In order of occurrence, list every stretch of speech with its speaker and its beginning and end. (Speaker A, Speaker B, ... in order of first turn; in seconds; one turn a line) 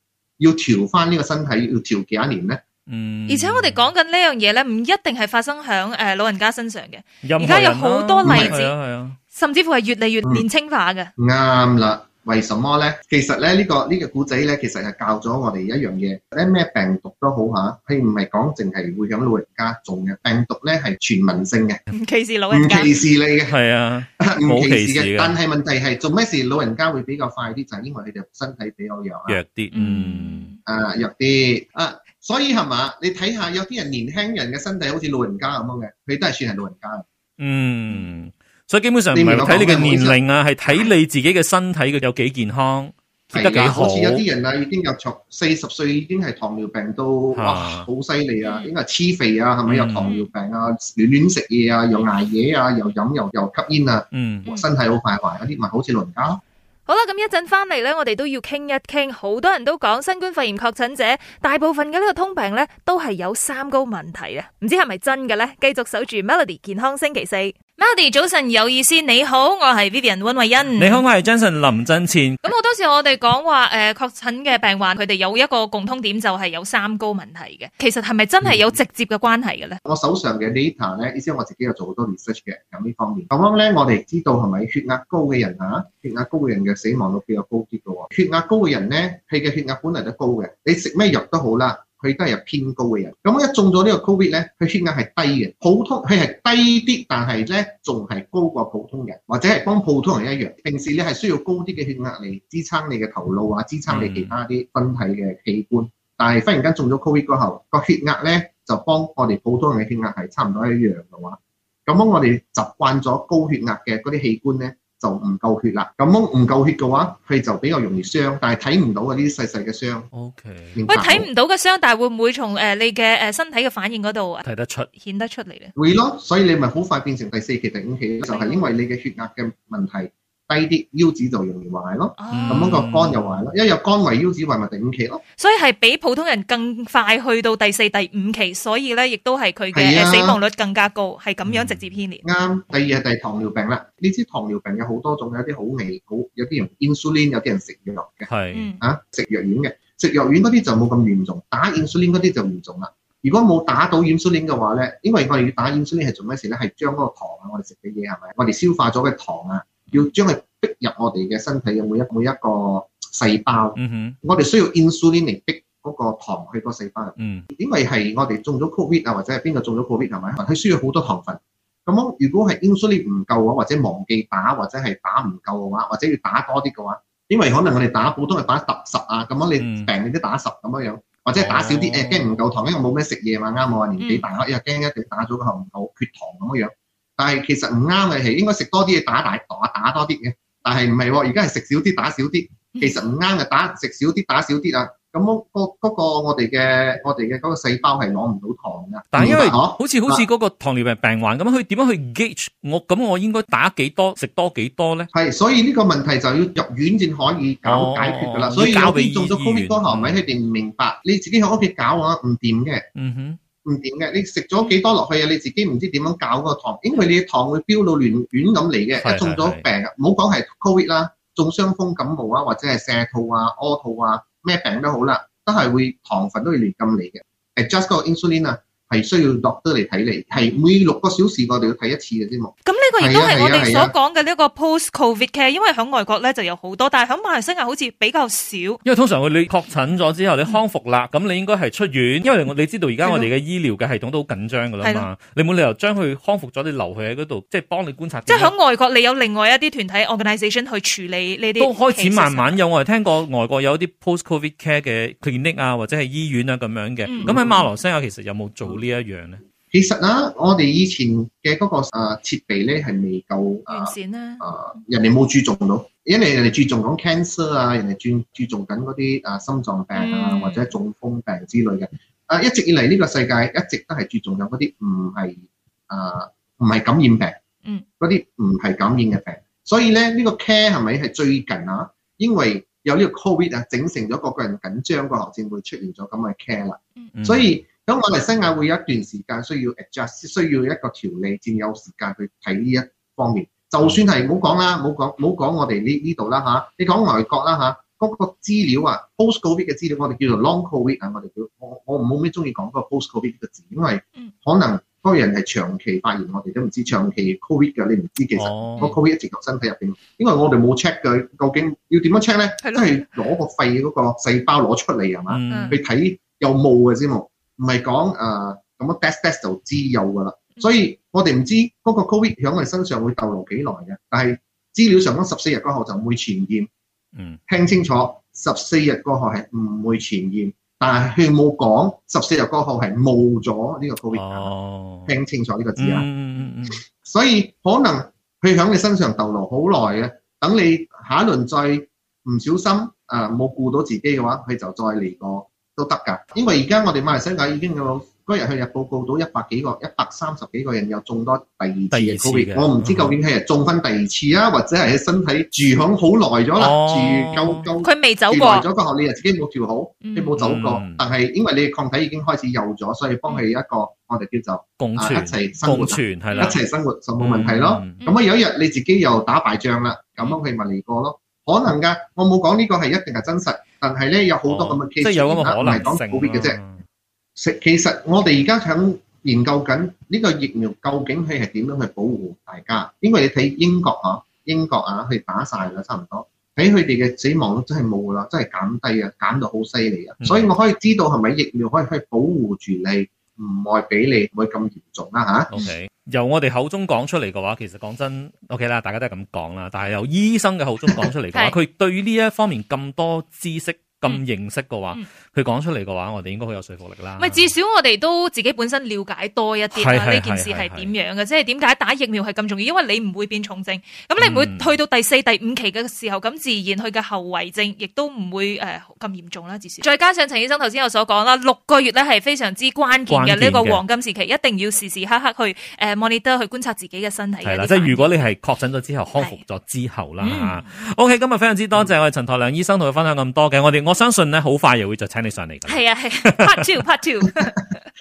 Speaker A: 0.4-2.6
Speaker B: 2.9-3.8
Speaker C: 3.3-8.7
Speaker B: 7.2-9.2
Speaker A: 8.2-8.5
Speaker C: 9.3-11.1
Speaker A: 11.2-21.8
Speaker C: 21.9-23.0
Speaker A: 22.5-23.6
Speaker B: 23.5-25.4
Speaker A: 24.2-29.4
Speaker B: 29.3-30.5
Speaker C: 29.7-30.6
Speaker A: 30.7-37.0
Speaker B: 37.4-44.2
Speaker A: 39.1-40.2
Speaker A: 43.3-56.4
Speaker B: 47.3-47.9
Speaker C: 48.4-48.7
Speaker B: 49.7-50.1
Speaker C: 50.0-50.3
Speaker B: 54.1-54.5
Speaker C: 56.9-71.0
Speaker B: 70.8-72.5
Speaker C: 72.4-79.8
Speaker A: 79.8-120.1
Speaker B: 103.9-104.4
Speaker B: 120.1-120.8
Speaker A: 120.8-121.3
Speaker C: 120.9-125.7
Speaker B: 124.4-124.9
Speaker A: 125.8-135.2
Speaker C: 128.3-128.7
Speaker C: 132.2-132.9
Speaker B: 132.3-133.4
Speaker C: 135.4-142.2
Speaker A: 139.7-140.4
Speaker B: 141.5-141.9
Speaker A: 142.2-148.3
Speaker B: 148.3-148.7
Speaker C: 148.5-148.8
Speaker A: 148.8-200.3
Speaker B: 163.8-164.2
Speaker B: 167.2-167.5
Speaker B: 179.6-179.9
Speaker B: 181.4-182.4
Speaker C: 184.0-184.3
Speaker C: 192.8-193.0
Speaker B: 199.1-205.1
Speaker A: 205.1-212.9
Speaker B: 207.7-210.2
Speaker B: 213.0-213.4
Speaker A: 213.7-233.9
Speaker B: 219.0-219.7
Speaker C: 230.3-230.6
Speaker C: 232.7-238.8
Speaker B: 238.8-248.5
Speaker C: 243.0-243.3
Speaker C: 248.3-252.6
Speaker B: 251.6-259.4
Speaker C: 257.1-257.4
Speaker A: 257.2-257.7
Speaker A: 259.7-277.4
Speaker C: 263.7-264.4
Speaker C: 269.9-270.7
Speaker A: 278.0-326.7
Speaker B: 287.2-287.5
Speaker B: 308.4-308.9
Speaker C: 312.6-313.0
Speaker B: 315.3-315.8
Speaker C: 315.5-315.8
Speaker B: 327.1-327.4
Speaker A: 327.5-334.5
Speaker B: 334.1-335.1
Speaker A: 335.1-336.1
Speaker B: 335.8-336.8
Speaker A: 337.0-376.6
Speaker B: 351.9-353.1
Speaker B: 356.6-357.7
Speaker C: 357.8-358.7
Speaker C: 360.0-360.4
Speaker B: 360.4-361.0
Speaker B: 364.8-366.6
Speaker C: 366.3-366.6
Speaker B: 367.2-368.1
Speaker B: 374.5-376.9
Speaker A: 377.4-395.5
Speaker B: 390.2-390.5
Speaker B: 395.5-407.5
Speaker C: 407.2-428.1
Speaker B: 409.7-410.9
Speaker B: 414.2-414.7
Speaker B: 423.1-423.8
Speaker B: 427.4-436.7
Speaker C: 430.2-430.6
Speaker C: 435.7-437.8